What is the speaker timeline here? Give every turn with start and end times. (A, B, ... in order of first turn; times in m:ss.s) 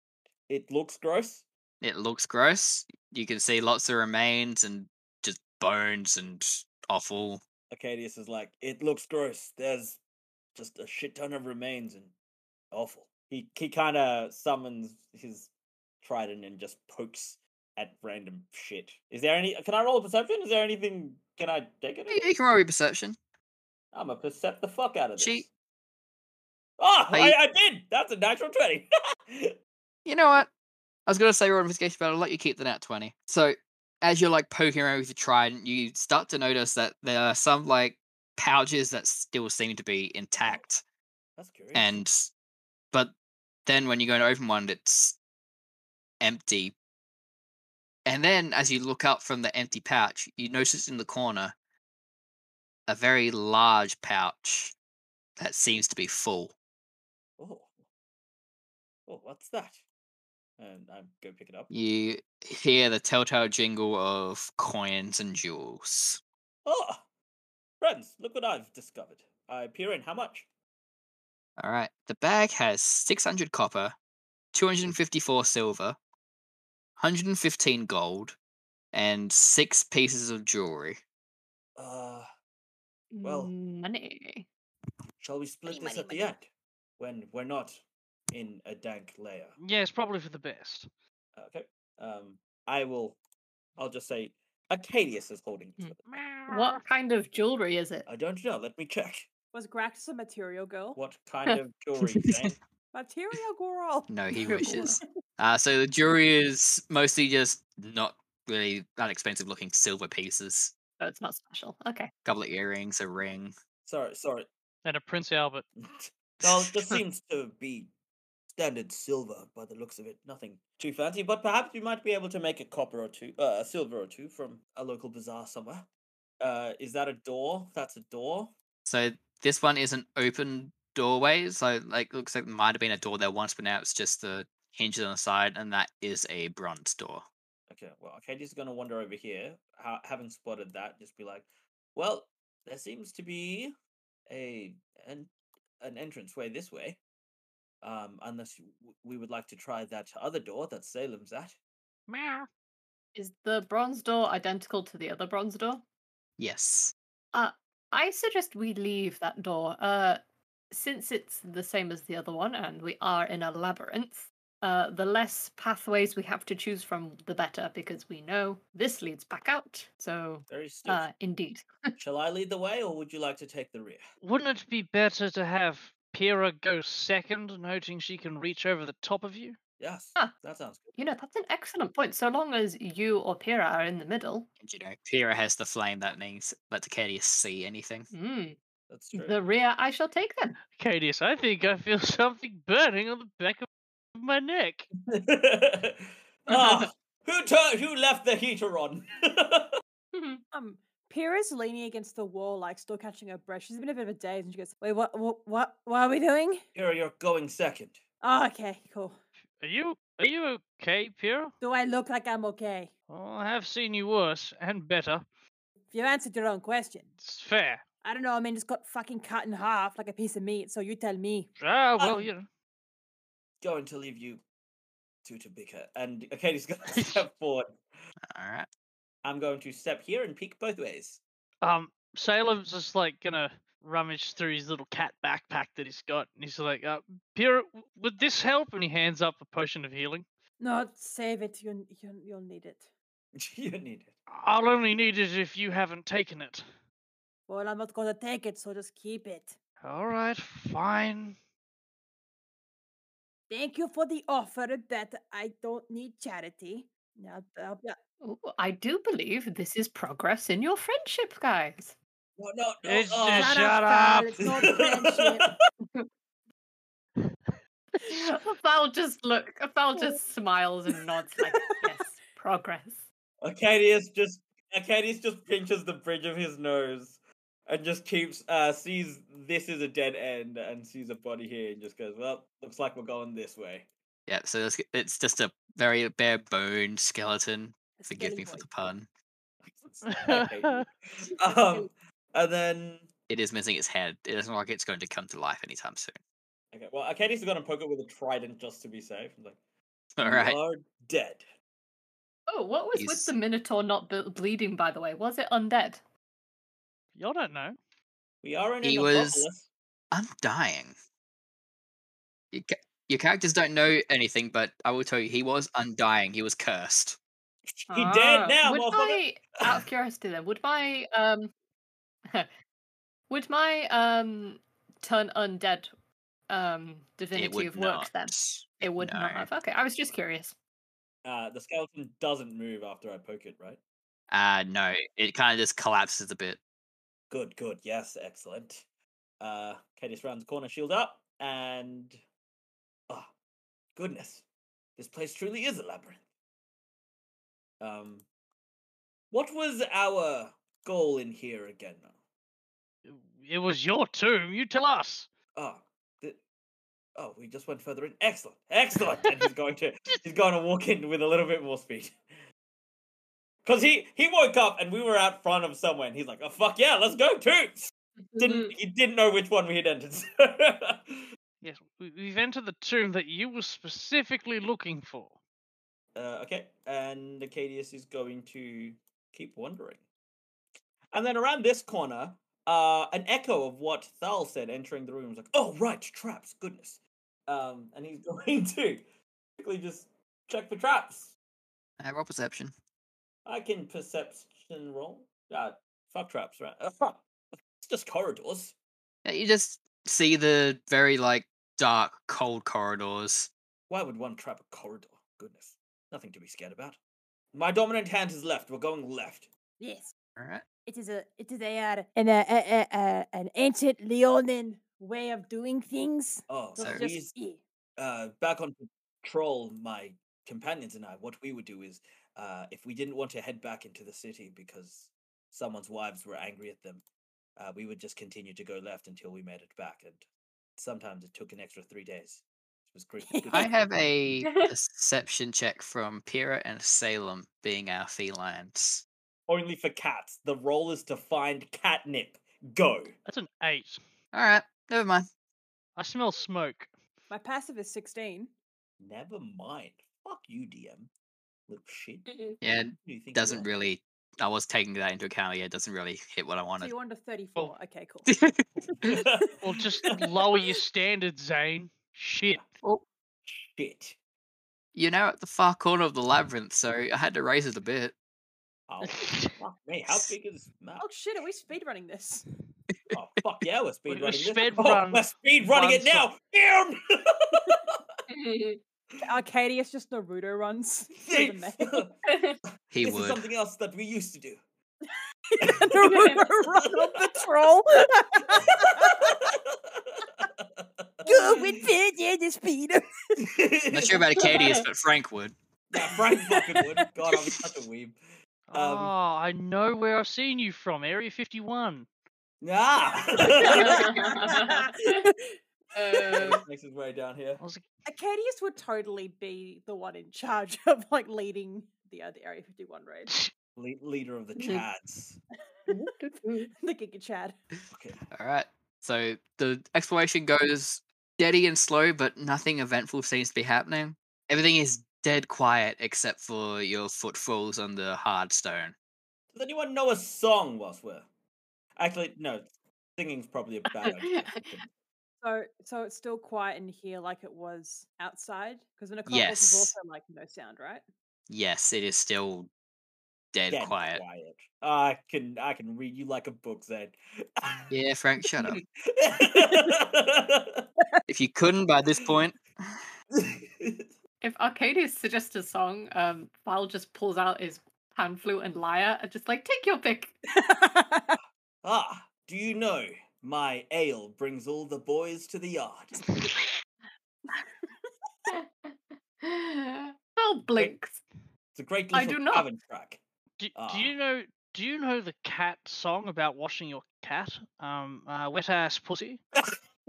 0:00.5-0:01.4 A
0:01.8-0:07.4 B
0:07.7-0:10.0 A
0:10.5-0:12.1 A
0:12.7-0:22.3 A
0:22.1-0:23.2 B
0:23.9-0:25.5 A
0:25.2-0:25.4 B
0:26.8-0:29.5 A
0:27.1-0:27.4 B
0:30.0-0:30.5 B
0:31.1-0:40.8 B
0:41.4-0:42.0 A
0:41.7-0:42.3 B
0:43.6-0:45.2 B
0:46.2-0:46.7 B
0:48.0-0:51.5 B
0:52.9-0:54.7 B
0:55.4-0:56.5 B
0:57.4-0:57.7 A
0:59.1-0:59.8 A
1:00.6-1:01.7 A
1:01.7-1:06.2 B
1:06.6-1:07.0 A
1:07.8-1:10.5 A
1:11.6-1:14.0 B
1:14.5-1:16.0 B
1:17.0-1:18.4 B
1:18.9-1:21.0 B
1:21.8-1:22.2 A
1:23.1-1:24.5 C
1:23.2-1:23.5 A
1:25.2-1:26.5 A
1:25.7-1:26.3 D
1:27.0-1:29.6 A
1:29.6-1:30.9 E
1:31.3-1:33.2 A
1:33.8-1:36.0 A
1:36.1-1:36.8 E
1:36.5-1:38.1 C
1:38.0-1:39.3 A
1:39.5-1:41.0 D
1:41.0-1:42.6 A
1:42.9-1:44.9 D
1:44.1-1:50.7 B
1:44.3-1:45.0 C
1:51.0-1:52.1 C
1:52.2-1:53.5 B
1:53.8-1:54.5 A
1:54.8-1:55.6 E
1:55.8-1:57.9 A
1:56.4-1:57.0 B
1:58.5-2:05.9 A
2:06.4-2:08.5 A
2:08.8-2:17.2 B
2:17.7-2:23.7 A
2:24.3-2:27.0 A
2:27.8-2:31.6 A
2:32.1-2:32.5 E
2:33.2-2:35.8 C
2:36.4-2:36.9 B
2:37.3-2:40.2 C
2:40.7-2:51.9 C
2:50.5-2:51.0 A
2:52.0-2:54.0 A
2:54.2-2:59.6 E
2:59.8-3:00.9 A
3:01.0-3:04.5 C
3:04.6-3:08.1 B
3:08.1-3:08.6 C
3:08.9-3:09.4 A
3:09.1-3:10.6 C
3:10.7-3:14.9 E
3:15.1-3:19.7 A
3:16.5-3:16.8 C
3:20.1-3:20.4 C
3:20.5-3:26.6 D
3:26.7-3:28.0 A
3:28.2-3:29.2 D
3:29.6-3:31.5 E
3:31.6-3:32.9 D
3:33.1-3:35.2 E
3:35.9-3:37.1 D
3:37.2-3:37.8 E
3:38.0-3:41.5 D
3:41.6-3:42.5 E
3:42.0-3:42.3 A
3:43.6-3:44.4 A
3:45.2-3:47.8 A
3:46.9-3:47.2 E
3:48.2-3:48.7 B
3:49.2-3:51.2 A
3:51.6-4:00.2 E
4:00.6-4:02.9 D
4:03.4-4:04.1 A
4:04.3-4:06.6 E
4:07.5-4:09.6 D
4:09.8-4:11.4 E
4:13.5-4:18.0 D
4:18.2-4:22.0 C
4:22.4-4:23.7 A
4:22.8-4:24.5 E
4:23.3-4:25.5 D
4:24.4-4:25.5 A
4:28.0-4:33.0 C
4:33.4-4:43.9 A
4:44.3-4:49.1 B
4:48.0-4:48.7 D
4:49.6-4:53.1 A
4:50.0-4:50.8 E
4:51.5-4:51.9 D
4:53.3-4:56.2 B
4:56.7-4:59.6 A
5:00.2-5:00.6 B
5:00.2-5:01.5 A
5:02.5-5:06.0 C
5:02.9-5:03.3 B
5:07.2-5:07.8 E
5:08.4-5:09.7 A
5:08.8-5:09.5 B
5:10.1-5:11.0 B
5:12.5-5:17.2 B
5:17.7-5:19.8 A
5:17.9-5:21.5 C
5:23.3-5:25.9 C
5:26.5-5:30.5 C
5:27.3-5:29.5 B
5:31.2-5:33.8 A
5:34.3-5:36.6 B
5:37.3-5:38.8 A
5:39.4-5:42.2 A
5:44.0-5:44.4 A
5:45.0-5:46.2 A
5:47.8-5:48.2 A
5:49.3-5:52.1 A
5:53.0-5:55.3 E
5:55.5-5:56.4 A
5:57.2-6:02.2 A
6:03.6-6:11.2 A
6:08.3-6:08.7 C
6:11.6-6:15.4 E
6:16.1-6:20.0 A
6:21.1-6:29.0 A
6:29.6-6:31.3 A
6:32.0-6:32.7 B
6:33.4-6:38.7 A
6:39.2-6:43.5 B
6:43.9-6:47.0 A
6:47.5-6:49.5 A
6:49.8-6:50.1 D
6:50.4-6:50.6 B
6:50.8-6:57.6 D
6:56.5-6:57.3 A
6:56.8-6:57.0 B
6:58.0-7:07.0 A
7:07.6-7:10.2 A
7:10.8-7:13.8 A
7:13.2-7:13.7 D
7:13.5-7:19.0 B
7:14.4-7:14.7 C
7:19.5-7:23.1 A
7:23.2-7:24.0 E
7:24.3-7:25.3 B
7:26.0-7:26.9 E
7:27.3-7:28.5 D
7:29.0-7:31.1 A
7:31.7-7:32.3 A
7:32.6-7:36.9 B
7:33.0-7:33.7 A
7:36.8-7:38.3 D
7:38.3-7:39.1 B
7:39.0-7:39.5 A
7:39.6-7:42.6 E
7:43.5-7:44.2 A
7:44.9-7:48.1 B
7:48.9-7:51.1 A
7:49.0-7:49.5 E
7:51.0-7:52.4 D
7:53.1-7:58.0 A
7:54.1-7:56.3 E
7:58.3-7:58.8 C
7:59.2-8:02.1 D
8:01.2-8:02.2 A
8:02.3-8:02.6 C
8:02.9-8:03.4 B
8:03.0-8:04.6 A
8:05.5-8:09.3 D
8:05.6-8:07.3 A
8:08.6-8:11.7 A
8:11.2-8:13.0 D
8:13.4-8:14.2 A
8:13.9-8:15.5 B
8:14.4-8:14.8 C
8:15.9-8:18.2 A
8:18.7-8:22.1 E
8:18.7-8:19.1 A
8:22.6-8:24.2 A
8:23.6-8:25.2 C
8:23.6-8:25.5 D
8:26.0-8:26.6 C
8:26.2-8:27.6 A
8:28.0-8:33.3 D
8:33.8-8:35.4 A
8:34.6-8:34.8 C
8:35.9-8:36.7 C
8:36.7-8:37.6 D
8:37.9-8:38.2 A
8:38.3-8:48.9 B
8:49.5-8:51.2 A
8:52.0-8:54.9 A
8:54.0-8:54.6 C
8:55.4-9:01.0 D
8:59.2-8:59.9 B
9:01.5-9:02.7 B
9:03.5-9:04.2 B
9:03.7-9:07.8 A
9:07.9-9:08.8 B
9:09.0-9:10.8 A
9:11.3-9:13.0 B
9:13.3-9:14.1 A
9:14.4-9:20.4 C
9:20.6-9:21.4 D
9:21.8-9:26.2 A
9:28.5-9:31.2 C
9:30.7-9:30.9 A
9:31.7-9:33.2 A
9:32.1-9:32.7 C
9:33.6-9:39.4 E
9:33.8-9:34.1 A